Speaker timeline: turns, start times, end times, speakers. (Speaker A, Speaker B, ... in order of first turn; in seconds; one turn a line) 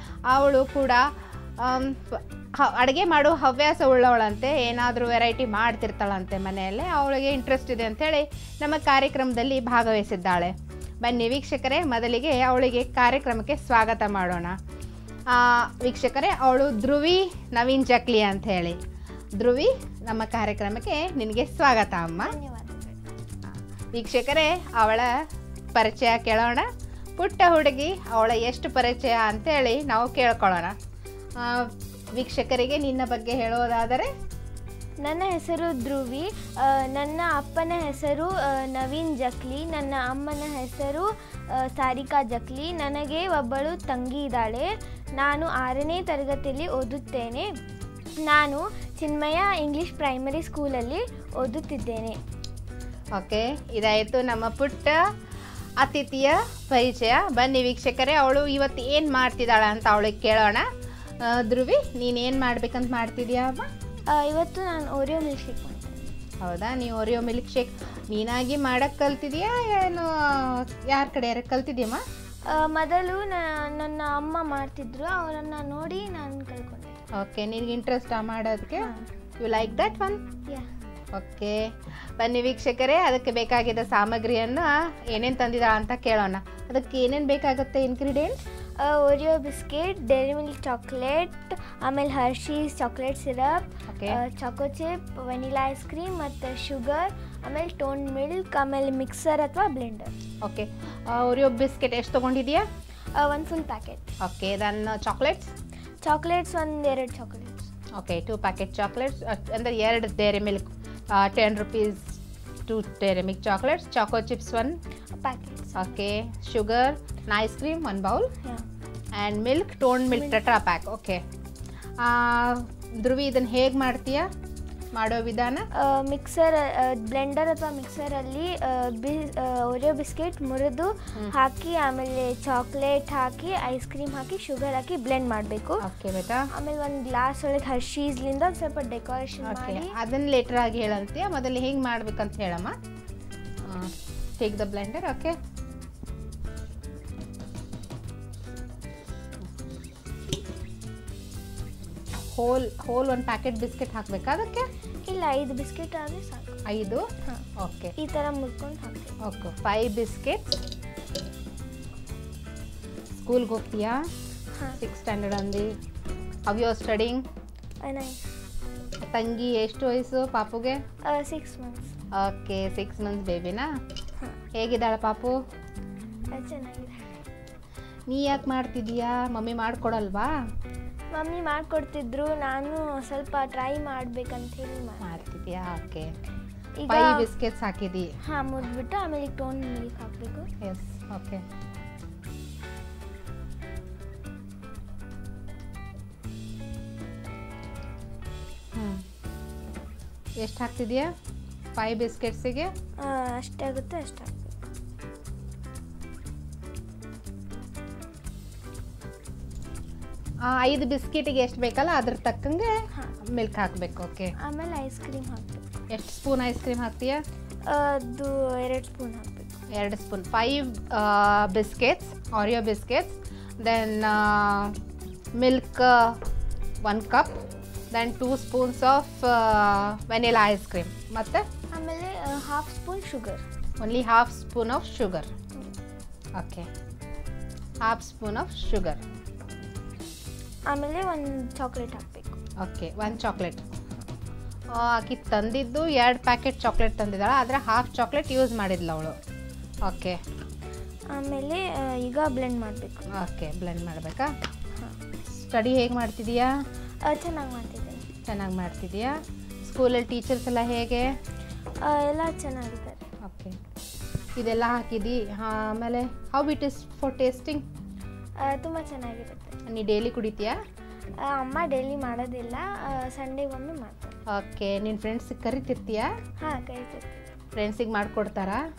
Speaker A: 0.3-1.1
Speaker A: 1.6-14.6
Speaker A: 15.3-18.8
Speaker A: 19.4-22.3
Speaker B: 22.2-23.0
Speaker A: 23.9-25.1
Speaker A: 25.7-30.7
Speaker A: 31.4-34.1
Speaker B: 35.0-47.5
Speaker B: 48.2-52.2
Speaker A: 53.2-55.0
Speaker A: 55.8-60.6
Speaker A: 61.2-63.7
Speaker B: 64.1-66.1
Speaker A: 66.4-72.0
Speaker B: 72.5-77.0
Speaker A: 77.2-80.2
Speaker B: 78.8-79.1
Speaker A: 81.1-88.4
Speaker B: 88.8-100.1
Speaker A: 93.9-94.2
Speaker A: 100.4-102.6
Speaker B: 103.2-104.1
Speaker A: 104.2-105.5
Speaker B: 106.0-107.7
Speaker A: 108.0-114.8
Speaker B: 115.1-116.0
Speaker A: 115.8-118.3
Speaker A: 119.1-121.2
Speaker B: 120.1-120.4
Speaker A: 122.0-124.3
Speaker A: 124.9-125.7
Speaker B: 125.7-135.8
Speaker A: 135.8-136.5
Speaker B: 136.5-139.9
Speaker A: 139.4-142.8
Speaker A: 143.6-145.3
Speaker A: 152.3-154.7
Speaker B: 155.0-156.6
Speaker A: 156.7-157.0
Speaker A: 157.6-157.9
Speaker B: 158.0-159.2
Speaker A: 159.2-160.6
Speaker A: 163.1-164.0
Speaker A: 164.8-165.7
Speaker A: 166.5-167.2
Speaker B: 167.8-168.2
Speaker A: 169.0-170.8
Speaker B: 171.1-171.9
Speaker A: 172.1-173.7
Speaker A: 174.5-175.3
Speaker B: 176.3-177.2
Speaker A: 178.1-180.3
Speaker B: 181.1-185.1
Speaker A: 185.0-186.1
Speaker B: 186.8-187.2
Speaker A: 186.9-188.1
Speaker B: 188.2-190.5
Speaker A: 190.6-191.4
Speaker A: 198.7-199.0
Speaker A: 200.4-201.1
Speaker A: 201.8-202.7
Speaker B: 203.0-204.7
Speaker A: 210.4-212.7
Speaker A: 213.3-214.3
Speaker B: 214.4-215.6
Speaker A: 215.9-217.2
Speaker B: 217.7-219.5
Speaker A: 219.7-224.8
Speaker A: 225.4-226.2
Speaker A: 226.8-227.4
Speaker A: 227.9-231.4
Speaker B: 231.7-233.4
Speaker A: 233.8-235.3
Speaker A: 236.3-236.7
Speaker A: 237.8-239.0
Speaker B: 240.7-242.4
Speaker A: 242.6-243.6
Speaker A: 244.7-249.2
Speaker A: 249.8-250.2
Speaker B: 251.1-253.0
Speaker A: 253.1-254.3
Speaker A: 255.3-256.5
Speaker B: 257.0-258.1
Speaker A: 258.3-261.1
Speaker B: 261.8-263.0
Speaker A: 263.2-263.6
Speaker A: 264.4-267.6
Speaker B: 268.4-269.6
Speaker A: 269.7-270.6
Speaker B: 271.3-274.1
Speaker A: 274.3-276.1
Speaker B: 276.4-277.3
Speaker A: 277.6-278.6